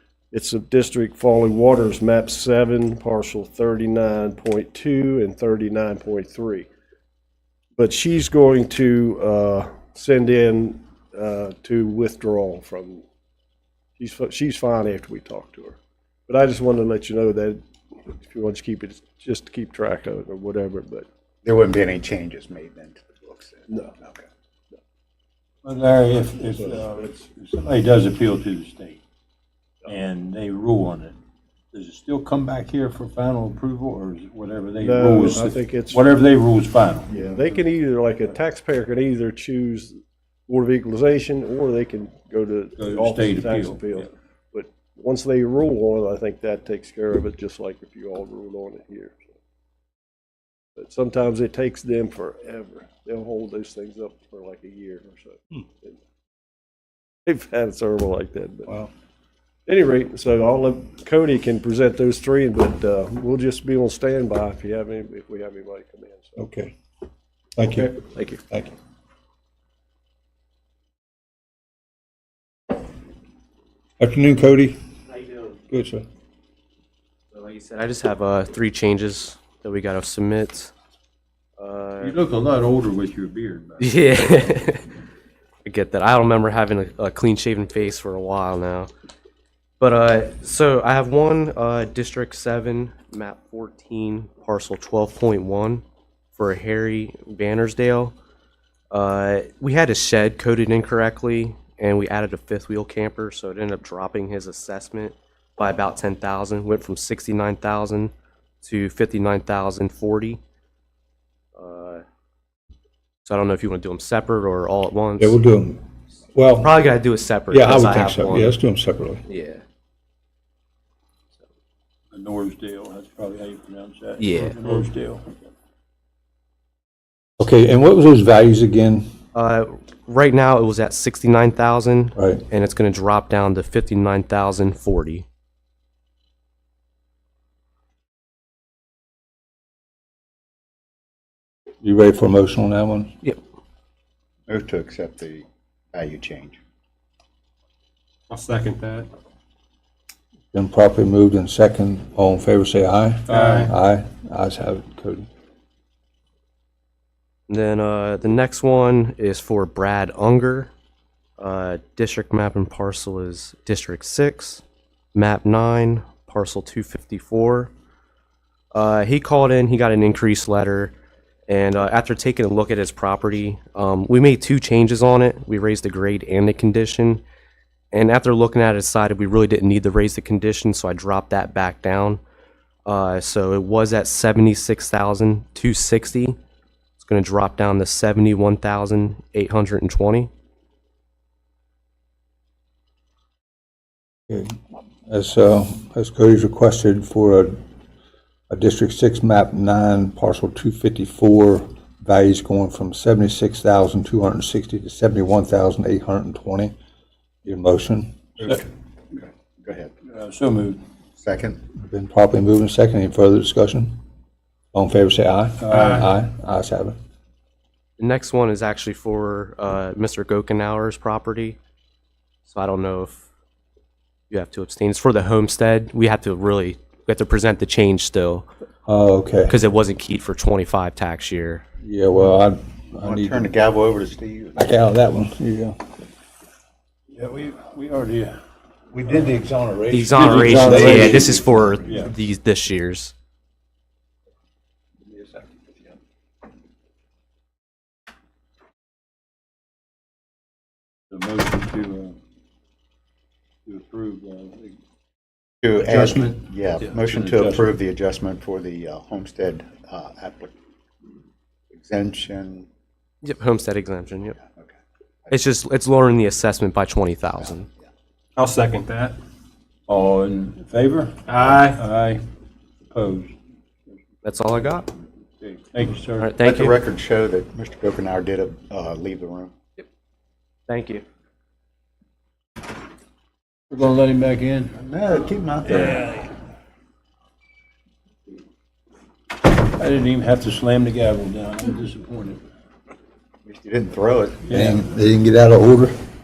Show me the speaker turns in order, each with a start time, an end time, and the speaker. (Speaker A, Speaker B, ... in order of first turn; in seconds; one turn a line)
Speaker A: 0.3-6.7
Speaker A: 7.8-13.1
Speaker A: 14.0-21.1
Speaker B: 21.4-24.2
Speaker C: 25.6-29.0
Speaker C: 29.9-31.2
Speaker C: 31.7-37.1
Speaker A: 34.8-36.0
Speaker A: 37.1-49.3
Speaker C: 42.8-44.0
Speaker A: 50.8-56.0
Speaker A: 57.3-58.7
Speaker A: 59.7-66.4
Speaker D: 66.4-66.8
Speaker D: 67.6-68.8
Speaker E: 68.0-68.4
Speaker D: 74.0-74.8
Speaker E: 75.2-75.5
Speaker D: 75.7-76.0
Speaker E: 77.3-80.7
Speaker E: 81.6-82.2
Speaker C: 82.0-84.6
Speaker E: 83.8-84.8
Speaker E: 85.7-88.9
Speaker E: 89.8-95.8
Speaker E: 96.4-98.1
Speaker E: 98.9-110.4
Speaker E: 111.5-112.0
Speaker E: 113.3-115.4
Speaker D: 115.2-116.8
Speaker E: 116.6-118.6
Speaker D: 117.5-119.2
Speaker E: 119.3-119.6
Speaker C: 122.1-125.4
Speaker E: 124.2-124.5
Speaker D: 127.4-129.1
Speaker E: 129.3-135.3
Speaker D: 132.2-132.4
Speaker D: 141.8-143.1
Speaker B: 144.5-146.6
Speaker F: 148.3-149.1
Speaker D: 150.5-155.3
Speaker F: 153.3-153.7
Speaker E: 157.5-160.7
Speaker E: 161.4-164.6
Speaker E: 165.1-167.7
Speaker E: 168.7-170.9
Speaker E: 171.5-177.2
Speaker E: 177.9-182.2
Speaker E: 182.9-186.4
Speaker E: 187.0-190.3
Speaker D: 194.3-194.6
Speaker D: 195.1-197.6
Speaker D: 198.5-206.8
Speaker D: 207.4-208.3
Speaker B: 209.1-209.9
Speaker C: 210.1-210.8
Speaker B: 211.2-211.6
Speaker D: 211.7-214.0
Speaker D: 214.7-217.0
Speaker E: 218.0-221.6
Speaker E: 222.5-223.2
Speaker E: 224.3-228.5
Speaker D: 228.9-229.6
Speaker E: 229.5-231.6
Speaker D: 231.8-233.4
Speaker B: 233.0-234.7
Speaker D: 234.6-235.8
Speaker C: 237.1-238.4
Speaker D: 238.9-242.0
Speaker E: 239.9-243.1
Speaker C: 240.1-242.1
Speaker C: 251.1-252.2
Speaker C: 253.7-254.8
Speaker B: 255.6-260.5
Speaker C: 255.8-257.8
Speaker B: 261.7-262.7
Speaker E: 263.2-264.4
Speaker B: 264.4-264.7
Speaker E: 265.3-267.7
Speaker F: 268.4-269.2
Speaker C: 269.9-272.2
Speaker F: 271.3-271.9
Speaker C: 272.9-273.3
Speaker C: 273.9-274.2
Speaker E: 274.2-274.9
Speaker C: 275.4-276.4
Speaker E: 276.2-276.8
Speaker B: 276.4-279.5
Speaker E: 280.7-281.0
Speaker C: 283.7-284.8
Speaker B: 284.8-286.1
Speaker C: 285.7-286.0
Speaker C: 289.5-292.4
Speaker B: 293.5-294.4
Speaker C: 294.5-294.8
Speaker D: 294.5-296.0